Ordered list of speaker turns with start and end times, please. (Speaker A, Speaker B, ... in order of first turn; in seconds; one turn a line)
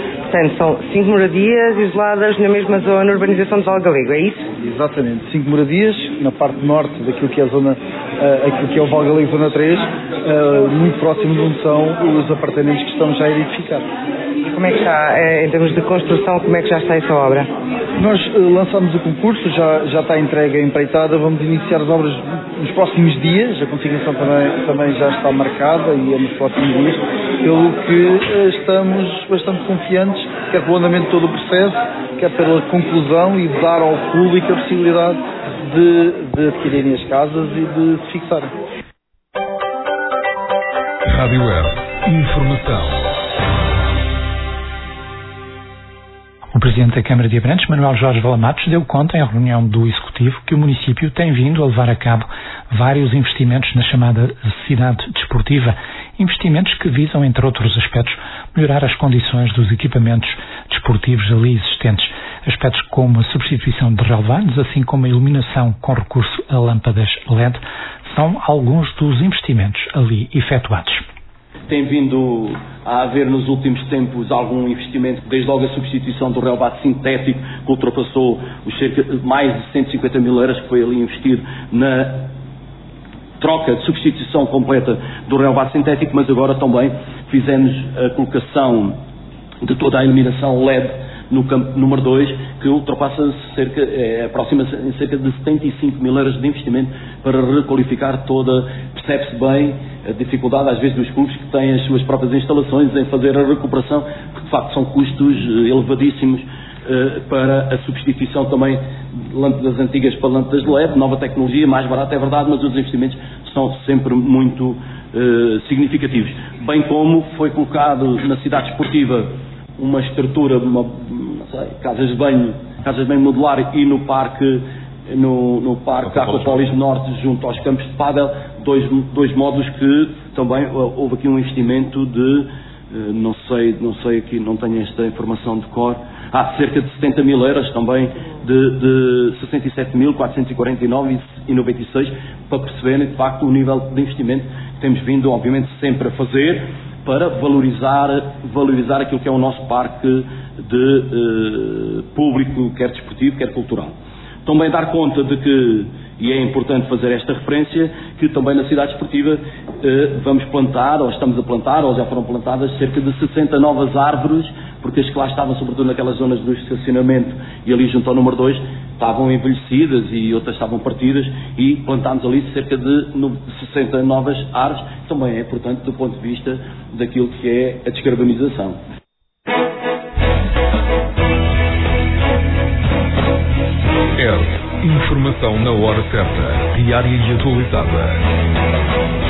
Speaker A: 0.3-4.4
Speaker B: 4.6-13.9
Speaker A: 14.5-17.5
Speaker B: 18.0-38.5
Speaker C: 41.1-43.1
Speaker D: 46.5-71.0
Speaker E: 71.7-82.3
Speaker E: 83.4-89.0
Speaker E: 89.6-108.8
Speaker E: 109.3-153.9
Speaker E: 154.5-178.8
Speaker C: 184.2-188.2